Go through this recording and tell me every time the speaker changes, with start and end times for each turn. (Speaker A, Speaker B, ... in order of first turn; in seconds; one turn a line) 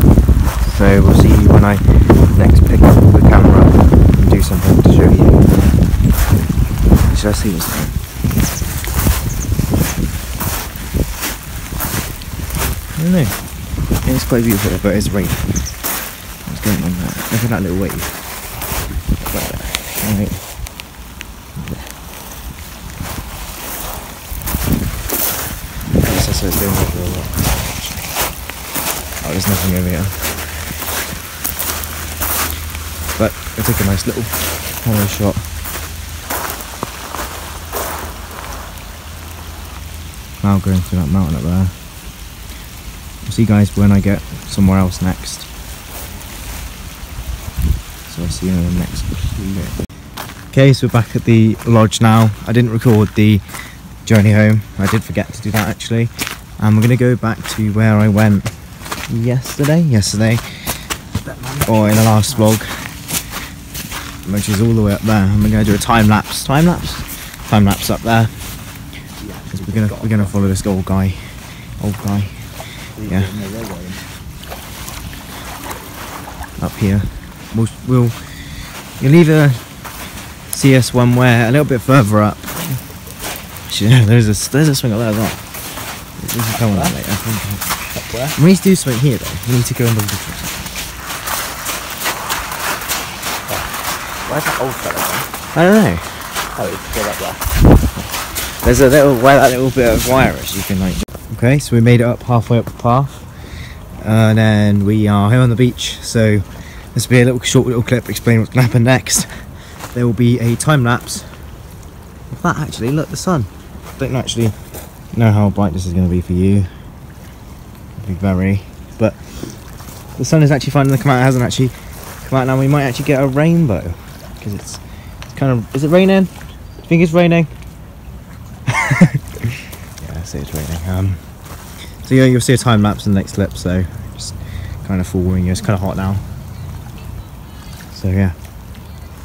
Speaker A: 0.6-6.0
Speaker A: 7.1-8.0
Speaker A: 13.0-18.5
Speaker A: 19.1-20.6
Speaker A: 21.6-21.9
Speaker A: 26.0-28.4
Speaker A: 29.2-30.7
Speaker A: 33.1-35.6
Speaker A: 40.4-41.8
Speaker A: 43.2-45.5
Speaker A: 48.1-49.7
Speaker A: 50.5-60.9
Speaker B: 61.2-62.5
Speaker A: 61.7-63.1
Speaker A: 64.2-68.8
Speaker B: 69.2-70.3
Speaker A: 69.5-73.4
Speaker B: 73.0-74.1
Speaker A: 76.6-90.8
Speaker B: 86.7-87.0
Speaker B: 87.9-88.4
Speaker B: 93.5-95.3
Speaker A: 95.5-96.4
Speaker B: 96.5-97.6
Speaker A: 98.0-111.6
Speaker A: 112.3-116.7
Speaker A: 118.0-127.5
Speaker A: 128.7-136.3
Speaker A: 137.9-138.4